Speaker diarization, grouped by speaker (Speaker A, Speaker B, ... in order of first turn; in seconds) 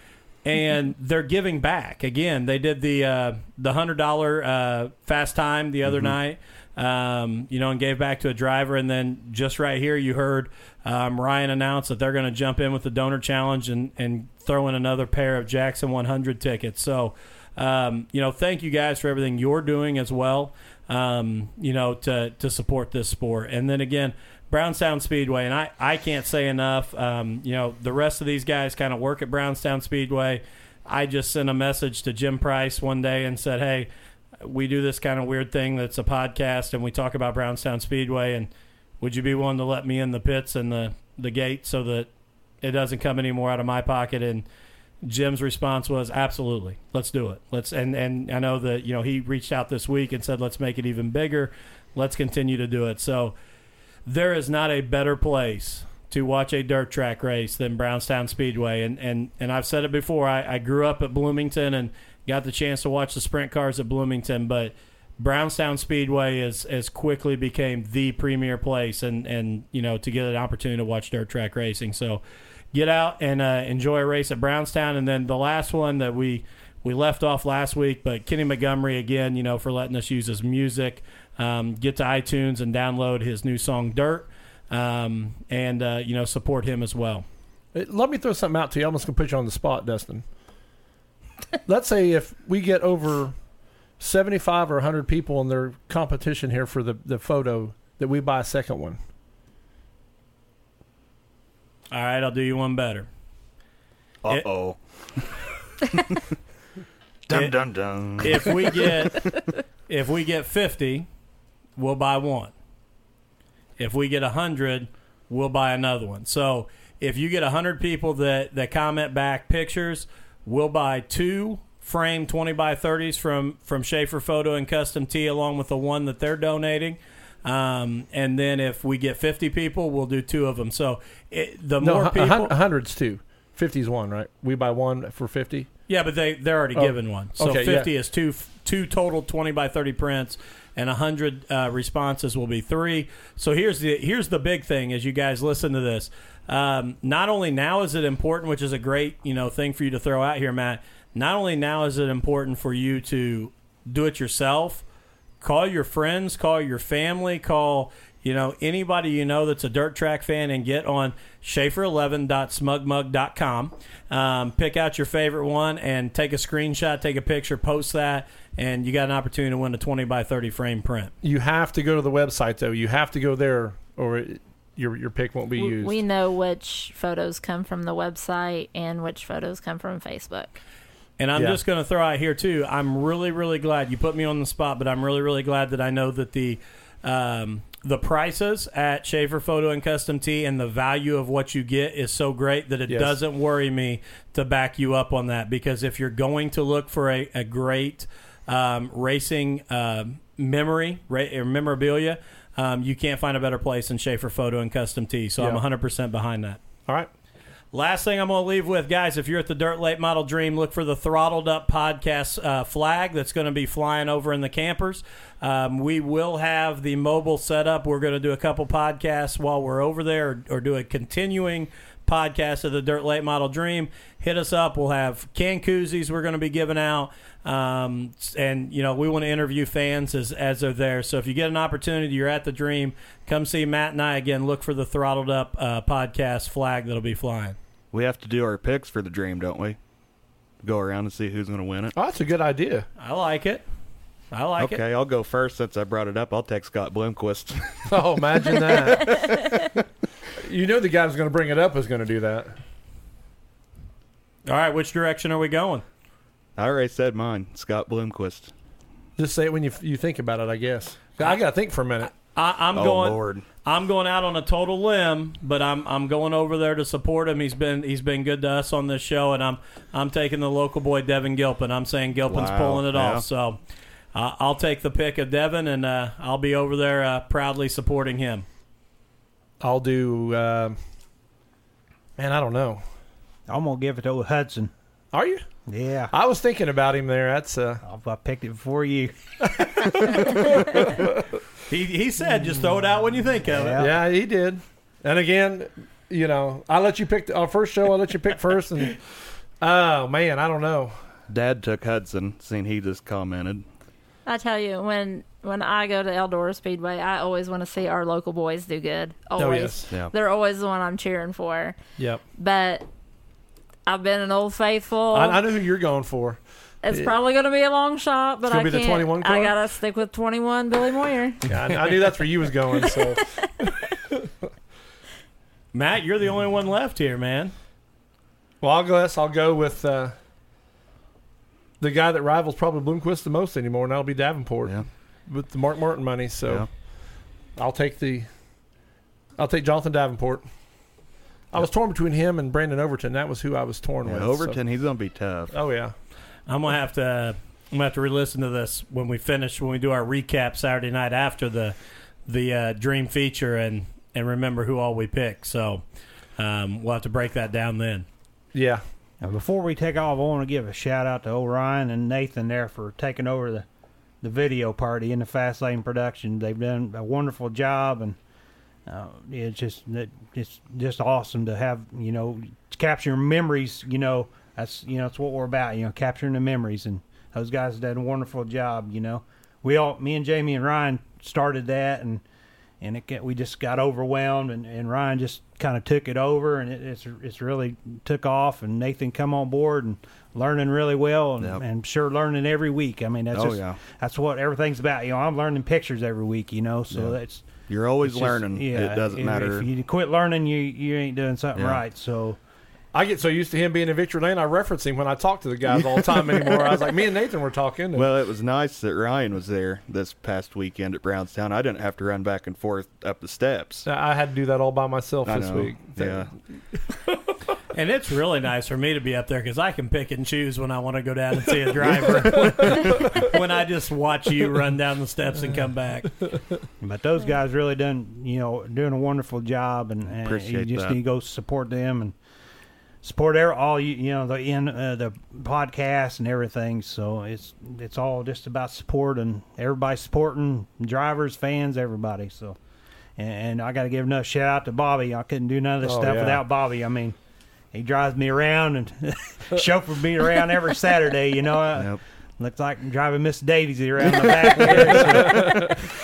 Speaker A: 0.4-33.9, 34.4-38.5, 39.0-42.1, 42.6-44.4, 45.0-53.3, 54.1-72.2, 72.7-87.2, 101.9-103.1, 107.3-109.3, 109.9-111.1, 111.8-112.5, 113.8-132.5, 135.9-154.8, 155.4-171.1, 181.2-206.6, 207.7-237.6, 243.0-243.6, 244.3-244.8, 254.4-255.8, 262.1-273.6, 274.1-278.4, 291.7-293.8, 325.7-327.5, 346.5-351.7, 352.3-355.8, 356.4-358.1, 417.7-426.3
Speaker B: 5.9-6.1, 104.2-105.3, 105.9-106.2, 107.3-109.5, 237.9-239.8, 240.6-241.9, 244.6-247.9, 256.6-258.5, 262.7-263.4, 272.3-273.2, 301.3-303.6, 344.1-345.5, 393.3-393.8, 396.9-399.7, 401.6-401.8, 407.9-413.9, 415.2-416.3, 430.2-431.0
Speaker C: 87.7-90.3, 91.7-93.4, 94.0-99.0, 131.8-135.7, 136.8-137.9, 171.2-176.0, 192.9-193.2, 241.9-242.8, 247.9-249.7, 250.3-252.6, 259.2-262.1, 279.6-280.8, 282.2-282.8, 285.1-285.4, 286.1-287.8, 289.6-291.2, 293.8-301.1, 309.4-309.9, 312.0-312.2, 315.1-317.1, 318.5-319.5, 321.5-323.7, 328.6-330.1, 331.8-336.9, 337.6-338.3, 339.4-340.5, 341.5-344.6, 345.5-345.9, 358.5-358.8, 402.9-408.1, 413.9-417.1, 445.8-446.4, 454.6-455.7
Speaker D: 175.6-180.6, 304.3-311.8, 312.3-312.9, 313.9-315.4, 316.8-321.4, 322.8-323.4
Speaker E: 283.5-284.7, 285.7-286.1, 287.8-289.2, 293.4-293.9, 359.2-363.6, 364.2-368.2, 368.9-382.2, 382.8-402.4, 426.8-432.2, 433.0-442.6, 443.1-447.2, 447.7-455.9